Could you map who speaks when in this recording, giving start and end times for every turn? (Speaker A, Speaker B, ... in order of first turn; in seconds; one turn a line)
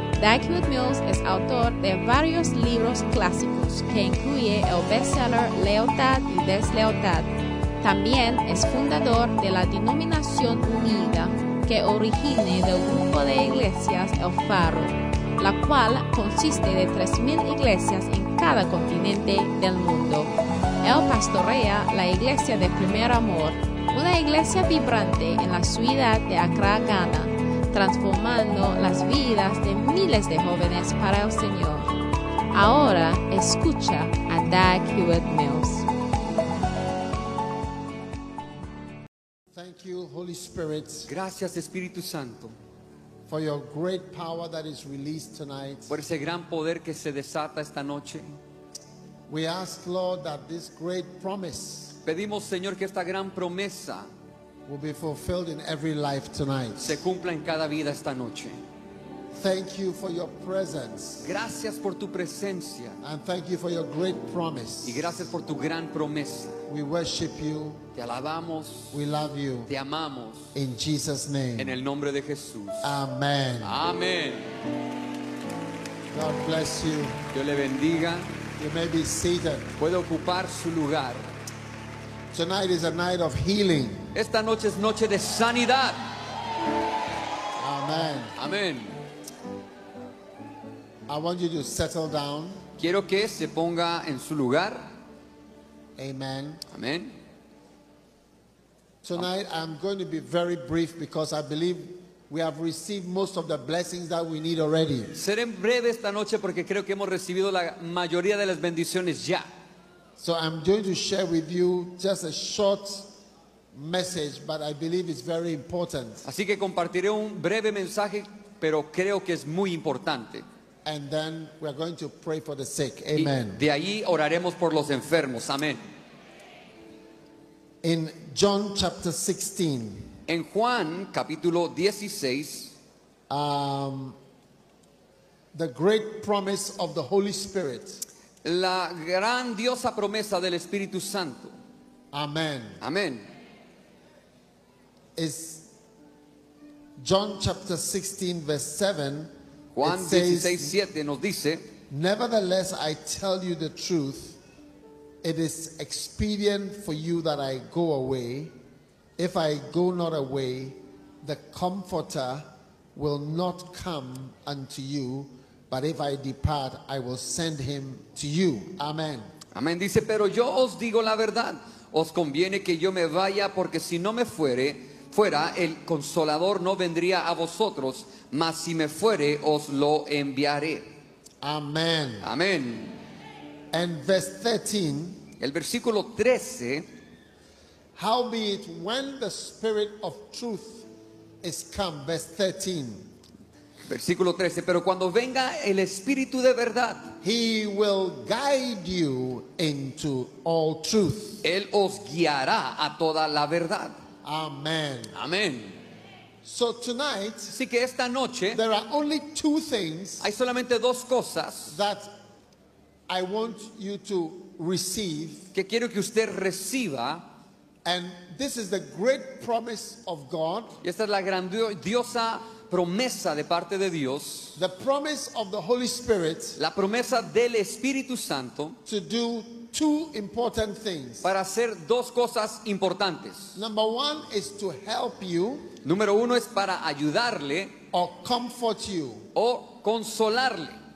Speaker A: 0.2-7.3
Speaker A: 7.8-31.9
Speaker A: 32.5-35.9
Speaker B: 39.5-41.1
Speaker C: 41.1-42.5
Speaker B: 43.3-45.9
Speaker C: 45.9-48.4
Speaker B: 49.3-52.0
Speaker C: 52.0-54.1
Speaker B: 54.7-57.0
Speaker C: 56.8-58.6
Speaker B: 59.3-61.3
Speaker C: 61.2-63.0
Speaker B: 63.0-65.1
Speaker C: 64.8-66.6
Speaker B: 66.7-67.8
Speaker C: 68.0-69.0
Speaker B: 68.9-69.7
Speaker C: 69.7-70.5
Speaker B: 70.5-71.8
Speaker C: 71.6-73.0
Speaker B: 72.8-73.8
Speaker C: 73.6-74.5
Speaker B: 76.1-77.2
Speaker C: 77.3-78.3
Speaker B: 78.6-79.7
Speaker C: 79.8-81.3
Speaker B: 82.3-84.1
Speaker C: 84.1-86.1
Speaker B: 87.6-88.3
Speaker C: 88.4-88.9
Speaker B: 91.1-92.6
Speaker C: 92.8-94.9
Speaker B: 96.0-96.6
Speaker C: 96.7-97.1
Speaker B: 99.0-105.1
Speaker C: 105.1-109.5
Speaker B: 110.2-113.1
Speaker B: 113.7-116.2
Speaker C: 116.2-120.5
Speaker B: 120.8-123.6
Speaker C: 123.2-125.8
Speaker B: 127.8-130.1
Speaker C: 130.3-132.7
Speaker B: 133.3-134.2
Speaker B: 135.5-138.0
Speaker C: 138.4-141.6
Speaker B: 142.1-142.8
Speaker C: 142.8-143.3
Speaker B: 145.2-145.7
Speaker B: 147.0-150.8
Speaker C: 149.8-151.7
Speaker B: 151.9-154.4
Speaker B: 155.2-158.5
Speaker B: 159.2-169.3
Speaker C: 169.5-180.9
Speaker B: 181.4-182.3
Speaker C: 182.2-183.0
Speaker B: 183.7-185.2
Speaker C: 185.4-186.9
Speaker B: 187.9-190.9
Speaker B: 191.4-193.1
Speaker C: 193.9-197.1
Speaker B: 197.2-201.4
Speaker C: 201.4-204.0
Speaker B: 204.2-205.1
Speaker C: 205.1-205.8
Speaker B: 206.4-207.6
Speaker C: 207.5-208.6
Speaker B: 208.5-210.3
Speaker C: 210.2-211.8
Speaker B: 211.7-212.1
Speaker B: 213.1-215.4
Speaker C: 215.5-217.2
Speaker B: 217.8-220.8
Speaker C: 220.8-224.6
Speaker B: 224.6-226.6
Speaker C: 226.6-228.8
Speaker B: 228.9-231.3
Speaker C: 231.2-233.5
Speaker B: 233.6-235.7
Speaker C: 235.8-237.8
Speaker B: 237.9-239.2
Speaker C: 239.3-240.8